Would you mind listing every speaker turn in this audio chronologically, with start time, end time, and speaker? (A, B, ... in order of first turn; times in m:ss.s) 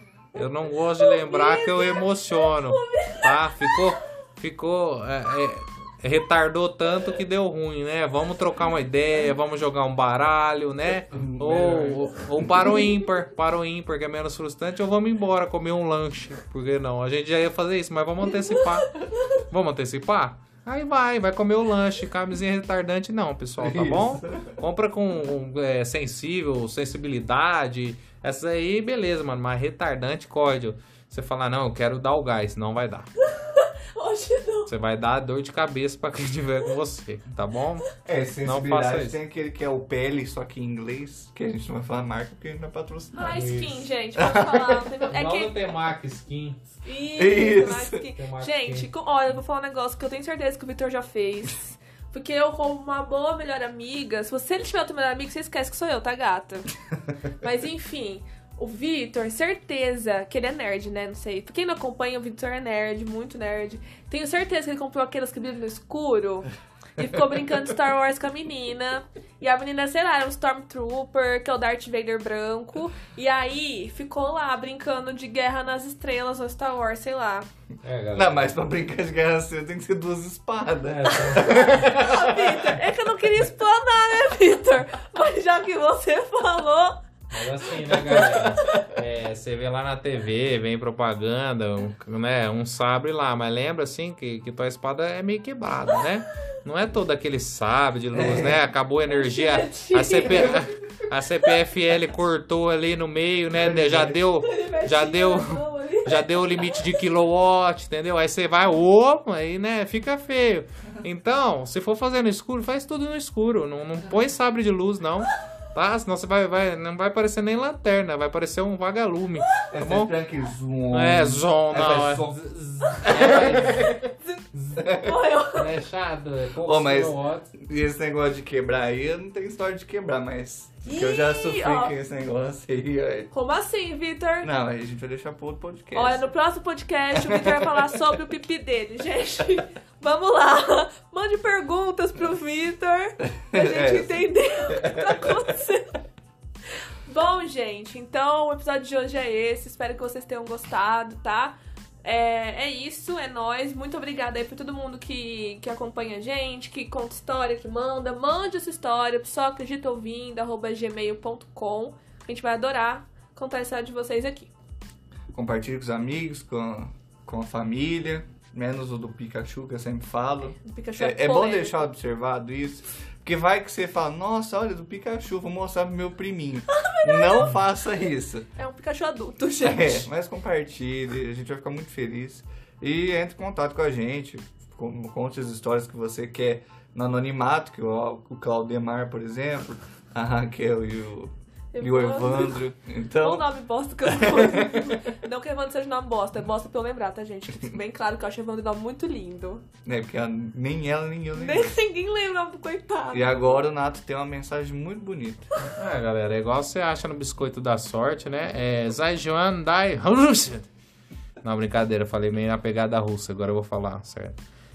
0:00.3-0:33.1 A
0:01.0-0:03.9 B
0:11.1-0:12.7 C
0:23.6-0:24.6 C
0:33.2-0:34.7 B
0:34.7-0:39.2 A
0:38.0-0:43.6 C
0:43.1-0:45.5 B
0:43.3-0:43.8 A
0:44.2-0:44.6 C
0:45.0-0:46.6 A
0:46.8-0:56.7 B
0:47.1-0:48.0 C
0:48.1-0:48.9 A
0:57.4-1:17.5 B
1:17.8-1:18.5 A
1:18.1-1:22.3 C
1:20.8-1:22.3 A
1:21.9-1:27.0 B
1:27.3-2:00.1 A
1:27.9-1:29.0 C
1:38.1-1:38.6 C
1:39.1-1:40.6 B
1:43.6-1:44.2 C
1:44.4-1:46.8 B
1:59.7-2:02.4 C
2:00.9-2:04.8 A
2:03.0-2:04.0 C
2:04.3-2:05.7 B
2:04.8-2:05.1 C
2:05.5-2:07.5 A
2:06.6-2:13.3 C
2:10.8-2:11.9 B
2:13.3-2:14.5 B
2:14.4-2:16.2 C
2:15.9-2:26.0 B
2:17.1-2:17.7 C
2:23.4-2:25.4 C
2:27.0-2:44.5 B
2:45.3-2:58.5 C
2:50.6-2:51.8 B
2:56.7-2:57.5 B
2:58.6-3:00.1 B
2:59.6-3:13.5 C
3:11.7-3:12.6 B
3:13.2-3:19.6 B
3:14.1-3:15.0 C
3:19.8-3:21.7 C
3:21.3-3:23.6 B
3:23.1-3:25.5 C
3:25.8-3:30.7 A
3:31.4-3:34.4 A